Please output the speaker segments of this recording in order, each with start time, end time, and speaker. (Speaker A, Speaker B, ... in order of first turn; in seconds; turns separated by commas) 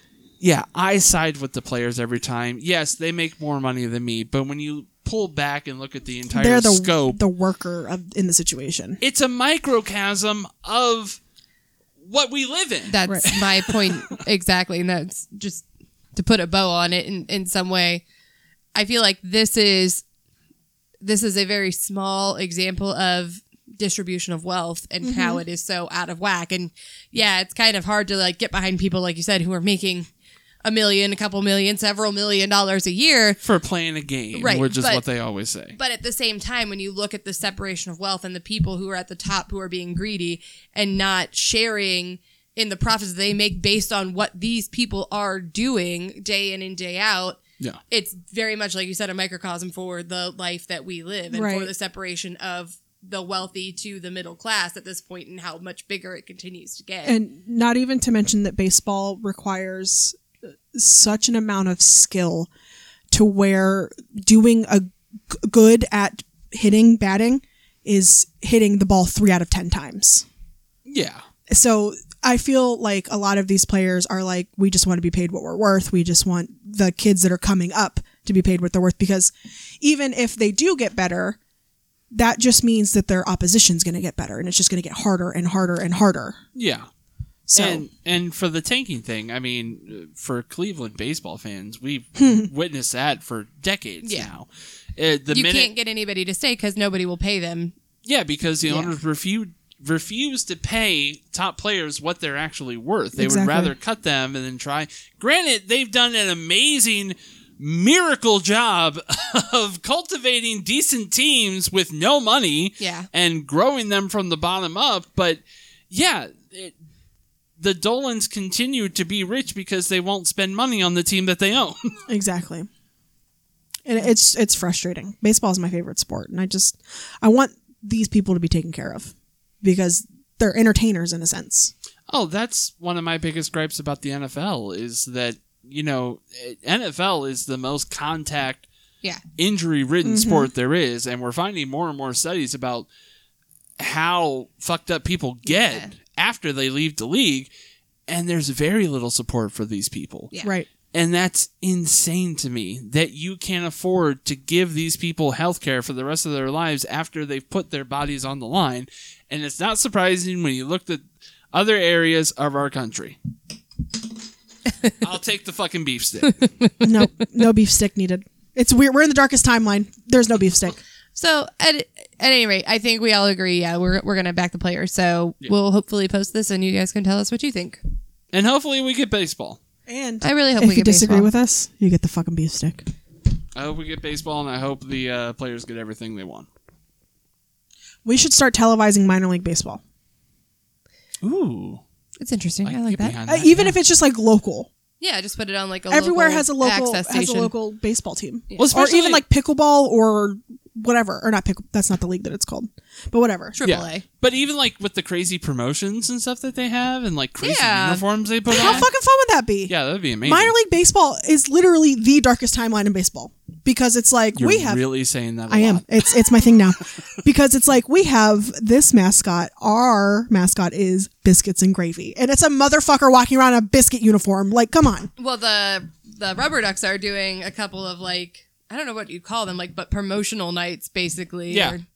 Speaker A: 0.4-7.2, Speaker B: 6.3-9.0, Speaker A: 9.0-11.2, Speaker A: 12.0-14.1, Speaker C: 12.9-18.0, Speaker C: 18.8-20.0, Speaker C: 21.0-30.1, Speaker B: 25.0-25.4, Speaker C: 30.6-33.4, Speaker A: 33.4-35.8, Speaker C: 34.3-35.0, Speaker C: 35.8-57.2, Speaker B: 51.3-51.7, Speaker B: 57.0-60.2, Speaker B: 60.7-62.5, Speaker B: 63.1-70.3, Speaker A: 70.8-71.2, Speaker B: 71.5-81.4, Speaker B: 82.1-86.4, Speaker A: 86.5-86.9, Speaker B: 87.5-87.8, Speaker A: 87.6-95.7, Speaker B: 92.2-92.5, Speaker C: 94.0-94.3, Speaker C: 95.3-97.7, Speaker A: 98.0-116.7, Speaker B: 103.2-103.7, Speaker C: 112.8-113.1, Speaker A: 117.6-121.9, Speaker B: 122.1-122.7, Speaker B: 123.9-131.7, Speaker A: 132.1-138.7, Speaker A: 139.4-142.9, Speaker B: 140.0-140.5, Speaker A: 143.8-147.5, Speaker C: 145.5-145.9, Speaker A: 148.1-150.3, Speaker A: 150.9-163.2, Speaker A: 165.0-166.4, Speaker C: 166.2-166.9, Speaker B: 166.8-170.8, Speaker C: 171.2-177.8, Speaker A: 178.3-179.6, Speaker B: 179.9-182.8, Speaker C: 180.2-181.3, Speaker A: 183.6-186.5, Speaker B: 188.0-189.8, Speaker A: 191.2-191.8, Speaker C: 192.2-193.2, Speaker A: 192.7-193.8, Speaker B: 193.3-194.7, Speaker C: 195.0-197.5, Speaker B: 195.9-203.6, Speaker A: 198.6-199.2, Speaker C: 203.6-204.0, Speaker A: 203.6-208.9, Speaker C: 207.4-208.8, Speaker B: 208.5-209.7, Speaker A: 209.7-210.6, Speaker B: 210.2-214.8, Speaker A: 214.3-215.9, Speaker B: 215.5-225.1, Speaker C: 225.2-231.8, Speaker A: 231.5-231.8